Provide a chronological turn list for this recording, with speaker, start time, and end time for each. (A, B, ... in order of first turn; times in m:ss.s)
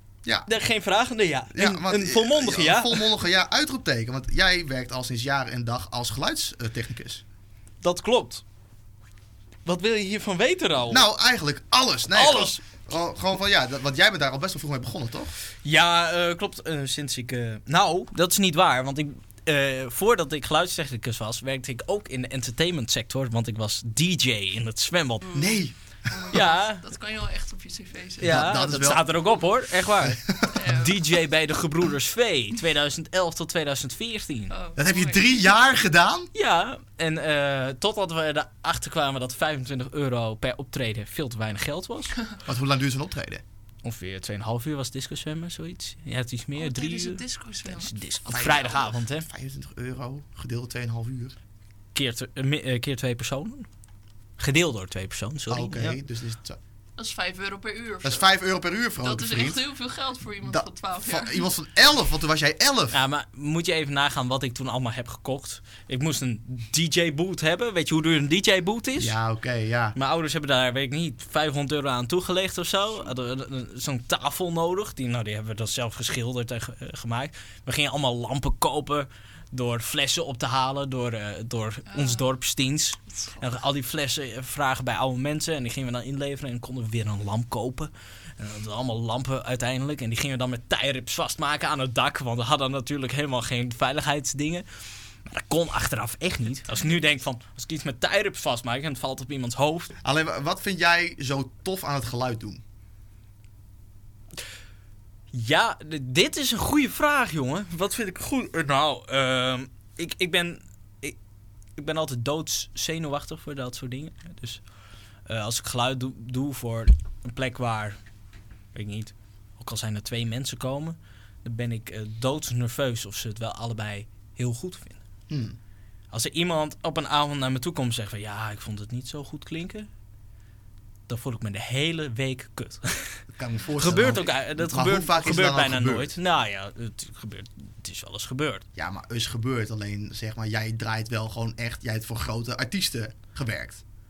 0:00.4-0:03.0 A
0:01.5-0:07.2 B
0:07.8-0:08.4 A
0:09.6-0:11.0 A
0:10.9-0:15.4 B
0:12.1-0:12.6 A
0:15.6-0:25.3 A
0:25.2-0:28.6 C
0:25.3-0:25.7 B
0:26.3-0:26.8 A
0:28.2-0:29.1 B
0:28.2-0:34.5 A
0:30.0-0:30.6 B
0:30.5-0:31.0 C
0:34.5-0:35.4 C
0:34.8-0:36.3 B
0:36.3-0:42.1 A
0:42.4-0:43.4 B
0:43.8-0:49.3 A
0:46.6-0:48.8 C
0:48.3-0:51.3 B
0:51.9-0:53.7 A
0:54.4-0:56.0 A
0:55.5-0:56.6 B
0:57.0-0:58.4 C
0:58.0-0:59.6 B
0:59.0-1:01.4 C
1:00.4-1:03.0 B
1:02.9-1:09.2 A
1:09.0-1:10.0 B
1:09.9-1:34.6 A
1:21.9-1:22.3 C
1:23.1-1:23.6 C
1:35.2-1:39.9 A
1:40.0-1:42.6 B
1:45.3-1:51.2 A
1:51.8-1:54.6 A
1:55.2-1:58.0 A
1:58.7-2:05.0 A
2:05.3-2:05.6 B
2:06.1-2:09.9 A
2:11.1-2:13.2 A
2:13.3-2:16.1 B
2:13.8-2:18.6 A
2:18.7-2:23.8 B